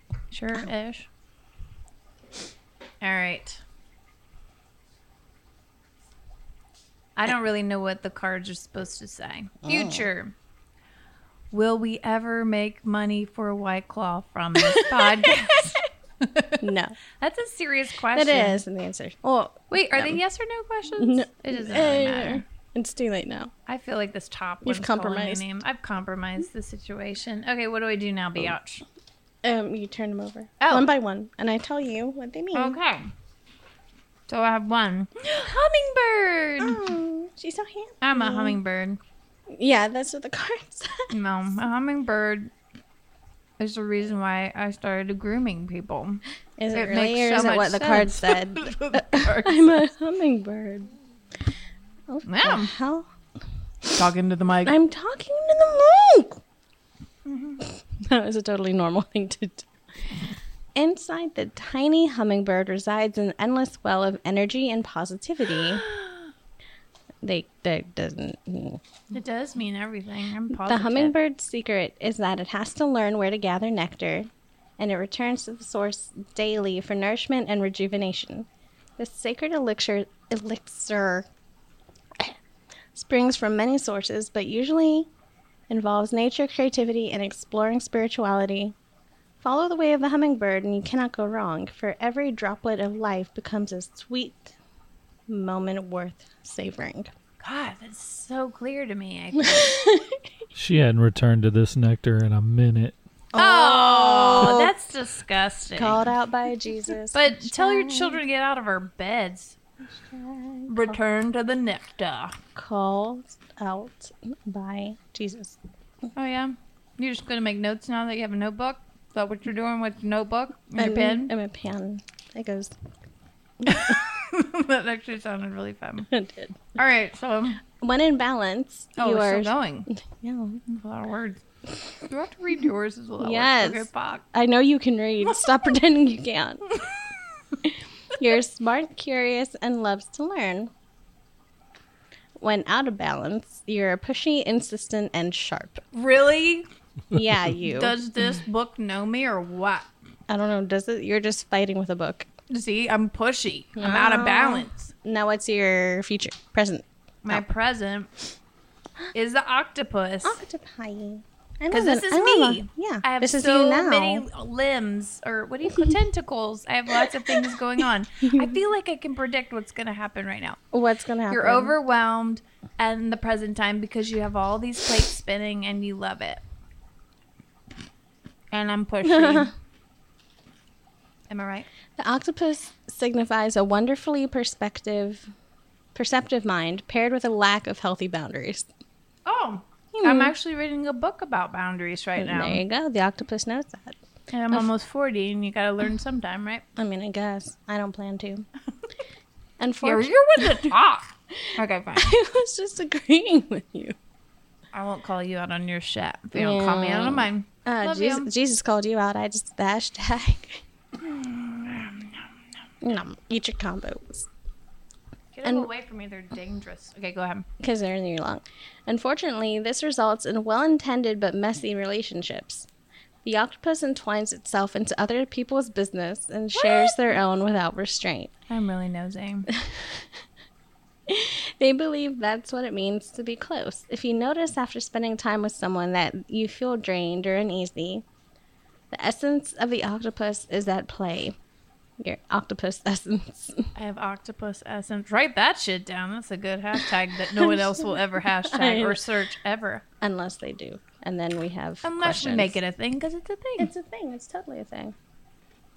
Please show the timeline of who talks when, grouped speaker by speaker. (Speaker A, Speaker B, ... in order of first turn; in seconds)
Speaker A: 0.3-1.1, 3.0-3.6, 7.2-10.3, 11.5-16.6, 17.2-18.6, 19.7-22.4, 23.7-28.8, 30.6-30.9, 32.5-33.1, 34.3-36.9, 38.0-39.0, 41.1-42.5, 43.6-49.7, 52.2-52.7, 53.9-54.7, 57.2-57.6, 65.6-66.3, 69.1-71.1, 97.4-99.8, 103.4-106.1, 107.1-109.6, 110.7-112.4, 116.1-121.3, 123.6-126.1, 126.7-127.6, 129.0-129.9, 130.7-131.4, 132.0-134.2, 145.9-146.7, 147.6-149.9, 152.5-154.9, 157.2-158.1, 159.1-160.4, 161.7-170.6, 171.3-176.4, 178.5-179.5, 181.3-181.7, 189.2-192.6, 194.3-196.6, 199.8-202.1, 204.7-208.3, 211.0-212.4, 215.3-217.5, 226.6-226.9, 228.5-229.5, 243.7-249.8, 251.8-253.7
Speaker B: 9.6-10.1, 14.6-15.3, 16.6-16.9, 18.1-20.2, 21.0-23.5, 24.6-25.4, 29.4-32.8, 36.6-38.6, 39.5-41.1, 46.6-50.9, 52.1-53.1, 54.6-56.4, 57.6-59.7, 60.7-65.8, 67.2-68.8, 70.5-78.5, 79.0-81.3, 82.9-85.1, 85.7-88.7, 89.4-94.5, 95.3-97.1, 99.4-100.2, 103.3-104.7, 105.7-108.2, 110.0-111.0, 112.5-115.6, 120.8-122.8, 123.6-124.0, 126.1-126.6, 127.8-130.6, 133.2-136.7, 137.6-140.7, 142.4-145.8, 147.1-147.9, 150.3-152.3, 153.8-157.4, 160.2-164.2, 167.0-167.5, 168.2-168.6, 170.7-171.8, 179.0-179.5, 182.0-185.3, 185.9-188.7, 189.9-190.3, 192.2-194.0, 196.8-198.4, 199.6-200.7, 201.9-203.9, 206.3-210.6, 212.8-214.3, 215.4-215.7, 217.6-222.7, 223.2-228.3, 229.5-230.1, 231.1-238.0, 238.9-241.3, 242.0-243.7, 247.3-249.0, 250.0-252.6, 253.6-254.9
Speaker C: 100.5-103.0